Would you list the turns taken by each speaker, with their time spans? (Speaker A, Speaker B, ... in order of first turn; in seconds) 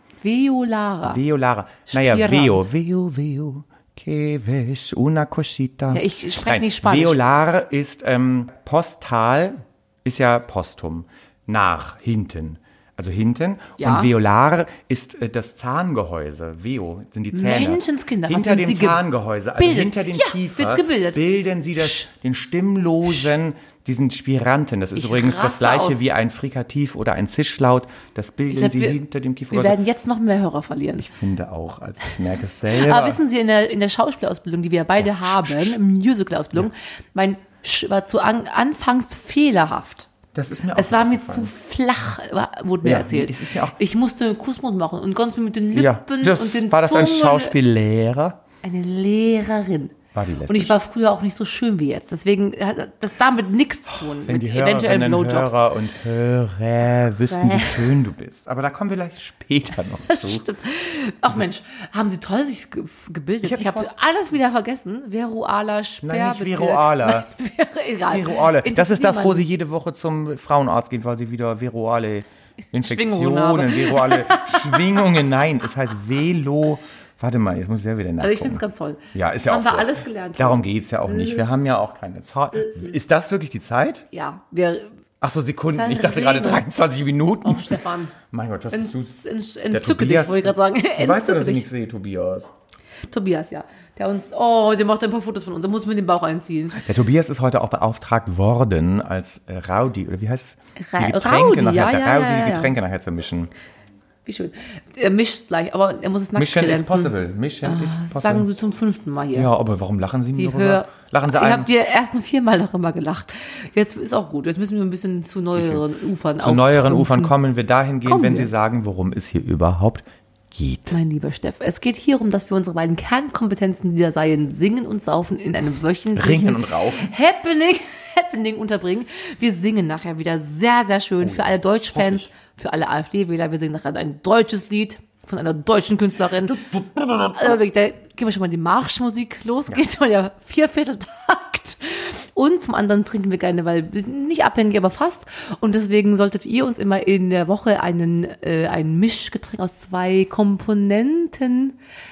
Speaker A: 0.2-1.2, 1.9-2.6, 5.9-7.2, 13.8-14.1, 17.3-19.0, 19.6-22.1, 24.9-26.0, 28.5-29.0, 29.5-31.1, 32.7-40.1, 40.7-47.5, 48.6-50.0, 50.5-55.6, 57.3-58.0, 60.0-69.4, 72.8-74.9, 78.2-81.4, 84.1-84.9, 85.7-86.6, 87.4-88.1, 88.7-91.7, 93.1-96.8, 100.8-102.7, 104.2-109.5, 110.3-117.3, 118.0-118.5, 120.9-136.6, 137.3-151.8
Speaker B: 1.0-29.8, 31.0-33.2, 35.0-35.8, 40.3-41.5, 42.8-43.8, 45.7-48.4, 50.1-50.8, 53.9-60.4, 63.4-63.9, 66.0-67.3, 68.1-84.1, 85.2-92.5, 96.7-103.5, 106.3-108.6, 109.3-111.7, 116.4-121.0, 126.1-127.1, 131.2-132.3, 136.4-137.6